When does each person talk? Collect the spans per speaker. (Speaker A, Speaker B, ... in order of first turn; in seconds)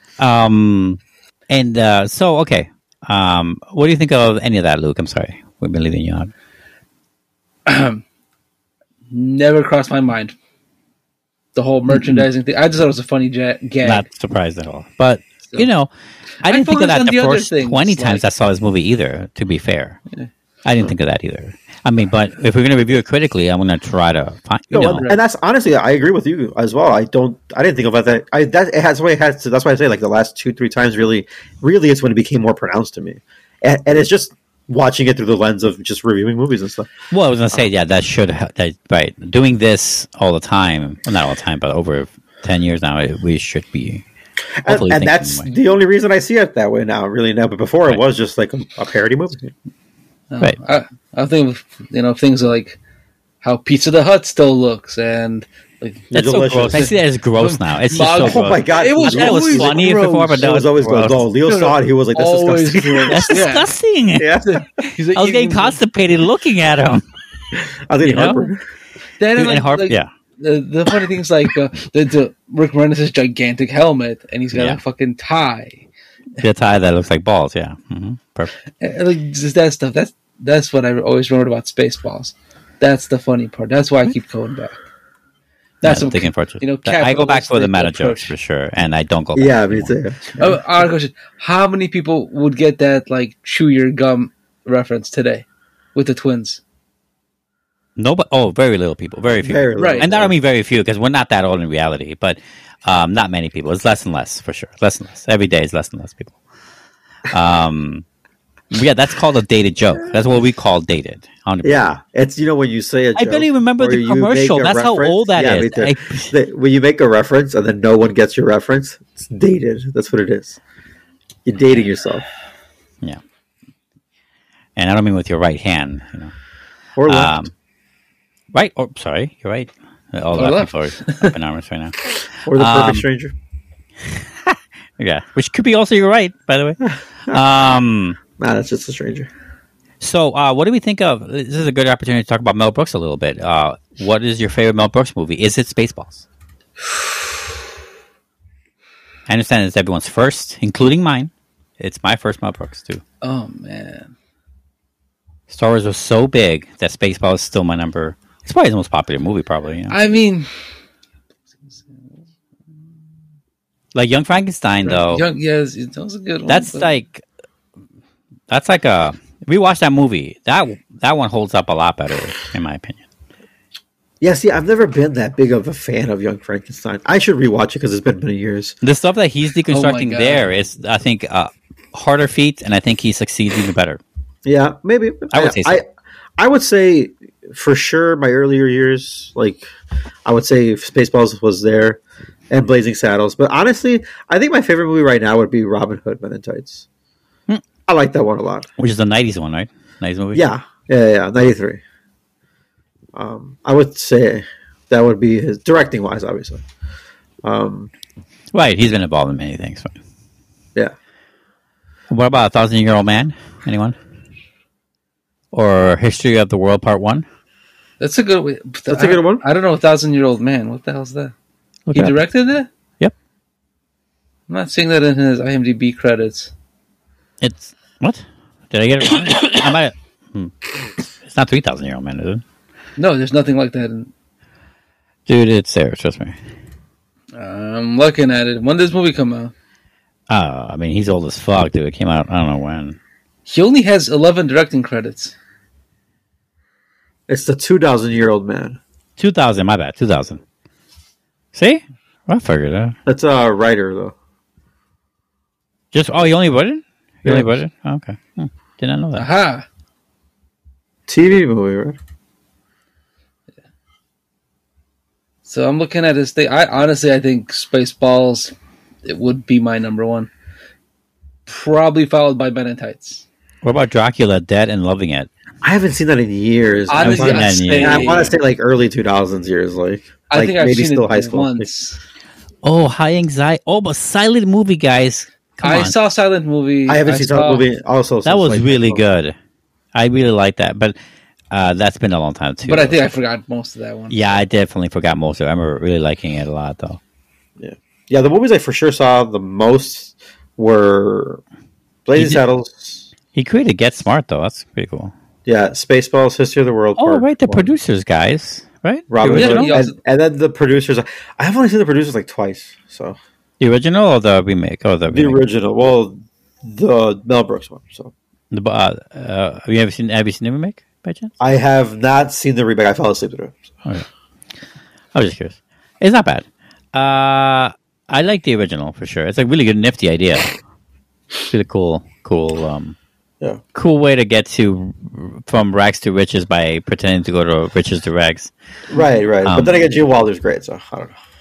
Speaker A: 0.2-6.3, 11.9-12.2, 13.8-15.9, 16.4-20.0, 20.6-25.1, 37.1-44.0, 44.7-45.5, 56.1-61.3, 63.1-67.0, 68.0-68.5, 69.4-70.1, 74.5-74.8, 76.4-78.5, 85.8-90.0, 98.0-106.3, 107.3-108.0, 108.7-111.8, 113.2-116.3, 124.8-126.3, 127.1-127.5, 128.5-133.0, 134.1-138.2, 140.0-146.2, 149.3-153.0, 155.5-160.0, 163.9-165.3, 166.5-167.2, 168.5-173.0, 178.8-184.0, 185.3-185.8, 198.8-200.5, 208.5-210.0, 212.1-214.0, 215.5-217.3, 221.9-222.2, 227.4-230.7, 231.2-232.4, 235.3-236.4, 240.3-243.0, 249.2-250.4, 251.5-253.0, 255.9-259.3, 273.6-275.3, 277.0-278.3, 282.6-285.9, 288.2-289.4, 289.9-290.9, 291.5-293.0, 294.1-297.0, 302.1-302.4, 303.4-305.1, 307.0-309.8, 313.6-315.4, 318.5-321.4, 325.1-330.6, 331.5-333.0, 333.7-338.5, 339.4-339.8
Speaker B: 7.7-8.0, 9.1-10.4, 11.6-14.1, 16.4-18.2, 50.3-52.8, 53.4-60.5, 61.5-63.7, 64.4-65.8, 69.2-75.8, 78.8-84.8, 85.8-88.3, 90.4-96.6, 99.8-100.0, 130.3-131.3, 153.2-154.1, 159.9-160.5, 161.7-162.1, 164.8-166.9, 179.7-180.5, 218.0-221.3, 221.9-222.7, 224.5-226.5, 233.0-234.1, 237.3-239.5, 243.5-245.3, 259.2-259.7, 265.4-270.3, 271.5-273.3, 276.9-278.3, 280.3-282.0, 285.6-287.6, 292.7-294.3, 309.2-310.0
Speaker C: 24.7-36.9, 44.6-49.5, 56.1-56.9, 58.1-59.9, 60.4-63.4, 64.2-64.6, 67.9-68.6, 89.3-90.6, 99.4-100.3, 111.6-120.6, 121.5-122.3, 127.0-127.5, 132.5-133.3, 136.9-137.4, 138.4-139.3, 174.2-178.8, 184.5-185.8, 186.4-189.7, 190.3-192.0, 192.5-196.9, 197.9-198.7, 200.3-201.8, 203.1-206.6, 207.4-207.9, 218.9-219.4, 247.3-248.8, 253.1-254.2, 261.1-262.0, 275.6-281.7, 286.9-289.0, 297.6-301.4, 302.1-303.1, 305.5-307.7, 309.1-313.2, 315.1-318.1, 321.4-323.7, 338.9-341.2